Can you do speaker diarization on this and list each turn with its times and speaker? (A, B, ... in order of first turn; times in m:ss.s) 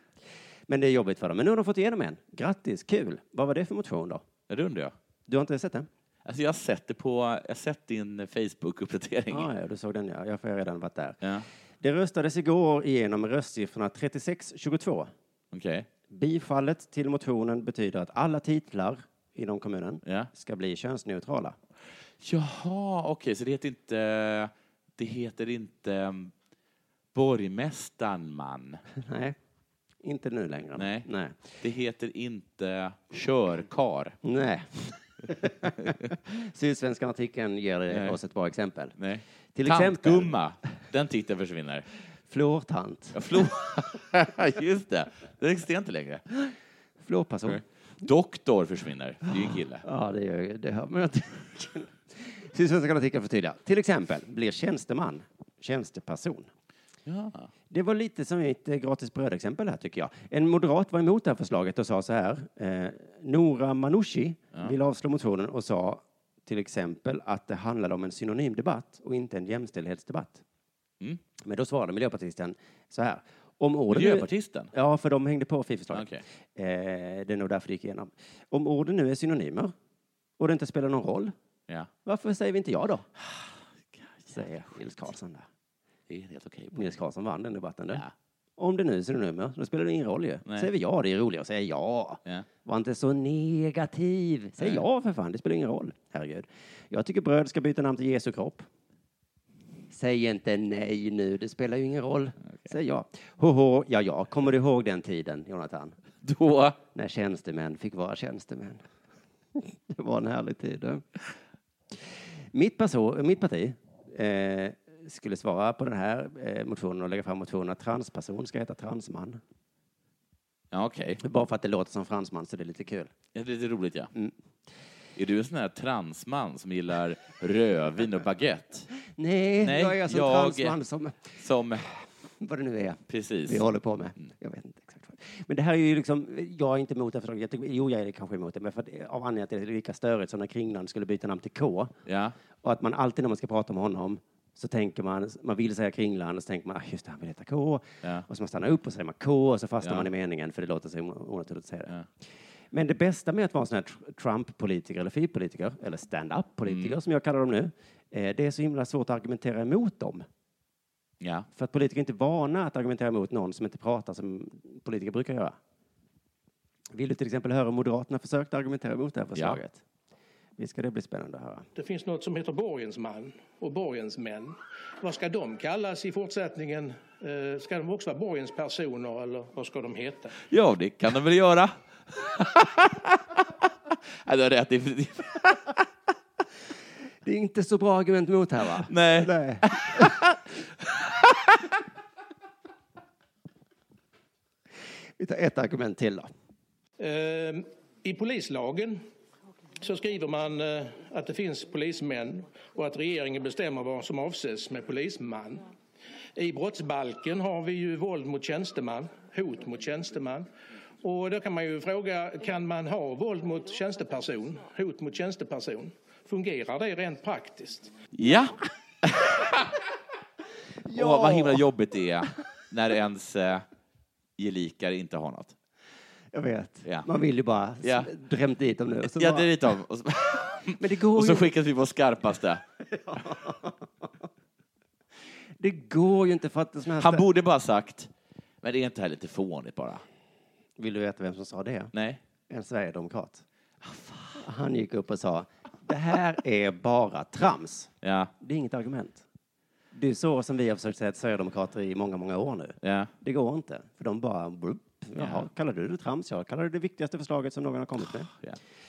0:00.7-0:04.2 A
0:04.5-0:05.0 B
0:05.3-0:05.9 A
0:06.2-0:09.5 B
0:09.3-0:11.2 A
0:11.8-0:15.1 A
0:15.5-0:15.9 B
0:16.1-0:21.6 A
0:20.0-0:20.3 B
0:22.2-0:26.3 B
0:27.1-0:28.8 B
0:29.0-0:29.4 A
0:30.0-0:31.6 A
0:30.8-0:31.1 B
0:31.6-0:34.2 B
0:34.2-0:39.0 A
0:37.9-0:38.2 B
0:39.0-0:41.9 B
0:39.6-0:40.4 A
0:42.3-0:43.5 A
0:43.1-0:46.2 B
0:47.0-0:47.6 A
0:47.5-0:49.8 B
0:49.5-0:56.5 A
0:57.0-0:57.5 B
0:57.7-1:10.4 A
1:11.4-1:19.7 A
1:13.9-1:14.7 B
1:15.9-1:16.2 B
1:20.4-1:21.3 A
1:22.0-1:23.1 A
1:23.2-1:25.0 B
1:24.3-1:25.5 A
1:26.1-1:27.0 B
1:26.7-1:28.0 A
1:28.6-1:38.7 A
1:39.9-1:46.0 A
1:46.2-1:46.8 B
1:46.9-1:48.8 A
1:49.6-1:51.0 A
1:52.5-1:59.4 A
2:00.7-2:01.2 B
2:01.2-2:03.1 A
2:03.3-2:04.1 B
2:05.2-2:08.9 B
2:09.2-2:11.4 A
2:09.6-2:10.8 B
2:11.4-2:11.9 B
2:12.4-2:21.9 A
2:13.1-2:13.6 B
2:22.1-2:22.4 B
2:22.6-2:31.9 A
2:29.8-2:30.1 B
2:32.7-2:40.3 A
2:36.7-2:37.0 B
2:41.2-2:41.5 B
2:41.5-2:45.6 A
2:46.9-2:49.8 A
2:50.6-2:51.7 A
2:51.8-3:00.4 C
3:00.5-3:05.8 B
3:07.2-3:10.2 A
3:08.8-3:11.7 B
3:15.2-3:16.3 A
3:17.0-3:19.0 C
3:19.8-3:25.7 C
3:26.4-3:30.5 C
3:31.0-3:37.9 C
3:38.1-3:39.8 B
3:40.9-3:41.6 A
3:40.9-3:43.6 B
3:44.4-3:45.6 B
3:46.3-3:49.6 A
3:47.8-3:48.1 B
3:49.0-3:52.6 B
3:50.8-3:51.5 A
3:52.9-3:54.0 A
3:55.6-3:57.3 A
3:57.0-3:58.1 B
3:58.6-4:00.0 B
4:00.8-4:01.9 A
4:01.9-4:02.2 B
4:02.5-4:03.4 A
4:03.8-4:04.3 B
4:04.4-4:09.2 A
4:08.0-4:08.3 B
4:09.9-4:18.3 A
4:12.8-4:13.1 B
4:15.2-4:15.5 B
4:18.3-4:18.6 B